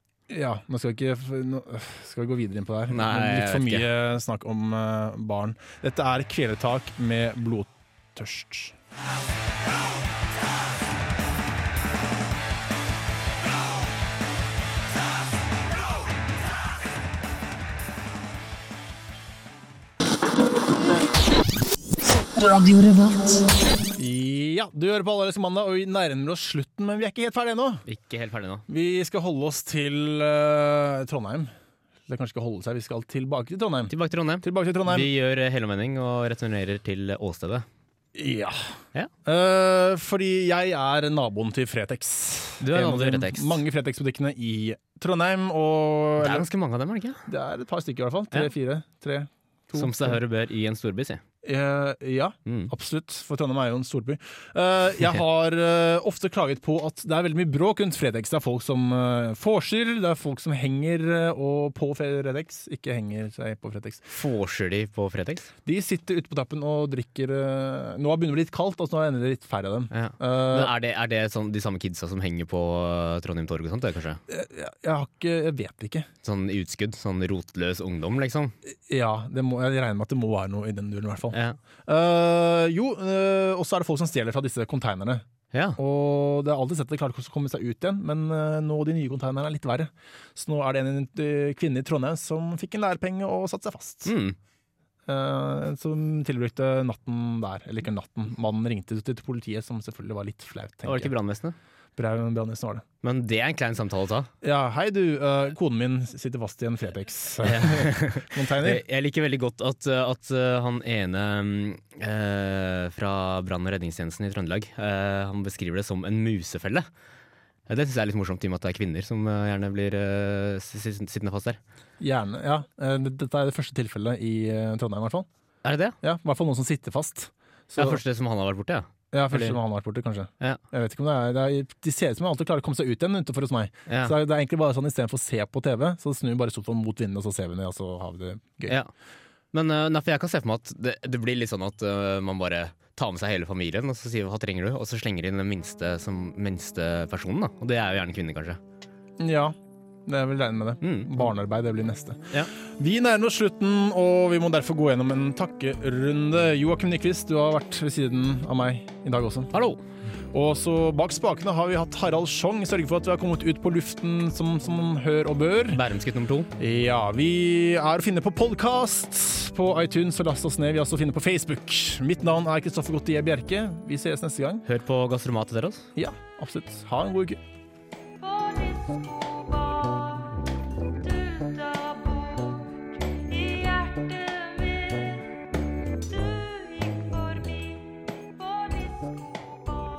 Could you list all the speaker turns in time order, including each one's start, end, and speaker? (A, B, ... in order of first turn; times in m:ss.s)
0:00.3-0:08.7 A
0:02.9-0:03.8 B
0:22.3-0:23.9 C
0:24.0-0:27.8 A
0:27.8-0:28.6 B
0:28.7-0:31.5 A
0:32.1-0:35.1 A
0:33.9-0:37.6 B
0:38.1-0:38.7 A
0:39.2-0:46.4 A
0:42.6-0:43.6 B
0:46.2-0:47.2 B
0:47.3-0:50.2 A
0:49.7-0:51.2 B
0:51.4-1:04.1 A
0:52.4-0:52.7 B
1:04.1-1:05.5 B
1:05.6-1:10.7 A
1:09.9-1:14.2 B
1:14.3-1:16.1 A
1:16.2-1:18.5 B
1:18.9-1:25.2 A
1:21.3-1:21.6 B
1:25.5-1:25.8 B
1:25.8-1:34.1 A
1:34.0-1:34.4 B
1:35.0-1:41.1 A
1:40.8-1:41.6 B
1:42.0-1:42.8 A
1:43.0-1:44.3 B
1:44.4-1:48.8 A
1:47.4-1:56.9 B
1:57.7-2:01.6 B
2:02.0-2:05.3 A
2:05.6-2:06.0 B
2:06.0-2:08.0 A
2:07.8-2:09.6 B
2:09.1-2:18.8 A
2:13.9-2:14.2 B
2:19.5-2:28.6 B
2:29.2-2:39.5 A
2:30.8-2:31.1 B
2:39.5-2:39.8 B
2:40.3-2:45.8 A
2:45.7-2:46.5 B
2:46.6-2:54.6 A
2:54.6-2:55.9 B
2:56.0-2:57.4 A
2:58.2-3:00.3 C
3:01.0-3:02.5 C
3:03.3-3:05.2 C
3:06.2-3:07.7 C
3:08.5-3:09.0 C